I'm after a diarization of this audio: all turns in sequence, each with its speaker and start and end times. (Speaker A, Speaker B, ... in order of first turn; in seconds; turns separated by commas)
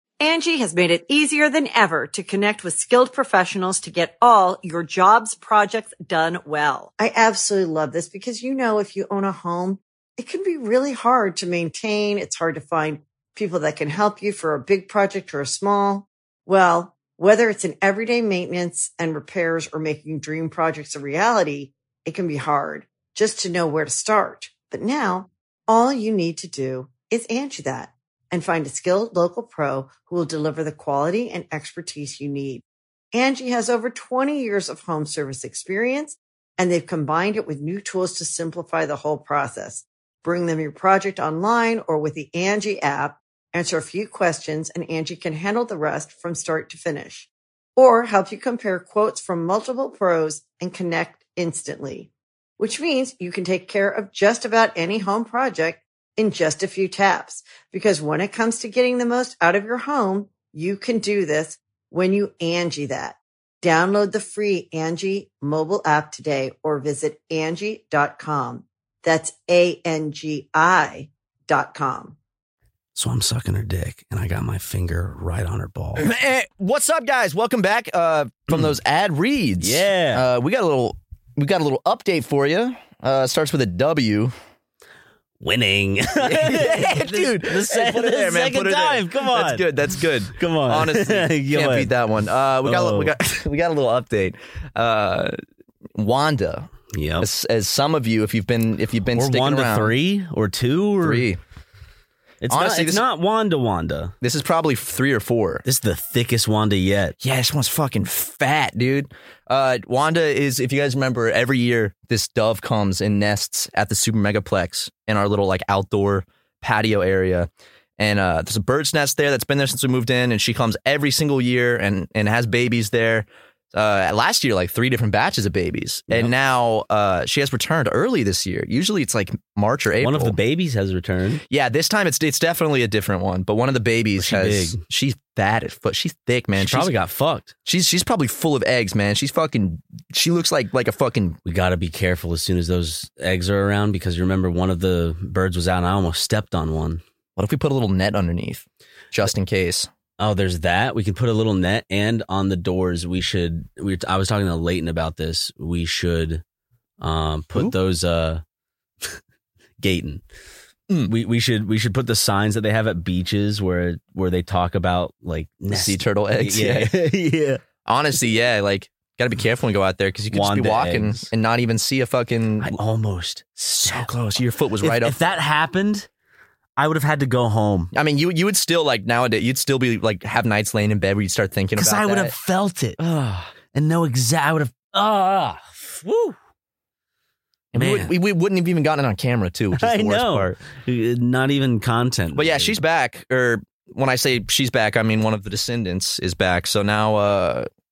Speaker A: 0.2-72.2, Speaker B: 72.9-76.1, Speaker C: 76.0-84.3, Speaker B: 79.6-80.2, Speaker B: 85.4-89.7, Speaker C: 86.2-95.3, Speaker B: 90.3-91.9, Speaker B: 92.6-93.1, Speaker C: 96.0-99.9, Speaker B: 96.9-97.3, Speaker B: 99.1-101.3, Speaker C: 101.0-101.4, Speaker B: 102.4-104.1, Speaker C: 102.5-103.0, Speaker C: 104.2-105.6, Speaker B: 105.7-107.2, Speaker C: 107.2-130.4, Speaker B: 130.0-131.4, Speaker C: 131.5-136.9, Speaker B: 134.2-134.8, Speaker B: 136.5-137.5, Speaker C: 137.7-141.4, Speaker B: 141.4-147.0, Speaker C: 147.4-149.9, Speaker B: 150.2-156.4, Speaker B: 157.0-158.4, Speaker B: 159.8-160.2, Speaker B: 161.1-167.6, Speaker C: 165.7-166.9, Speaker C: 167.8-172.8, Speaker B: 170.3-171.3, Speaker B: 172.6-174.1, Speaker C: 173.8-175.2, Speaker B: 174.8-176.1, Speaker B: 176.8-177.9, Speaker C: 177.9-182.3, Speaker B: 181.8-186.3, Speaker C: 187.7-190.6, Speaker B: 187.7-188.1, Speaker B: 189.8-192.8, Speaker C: 192.3-197.7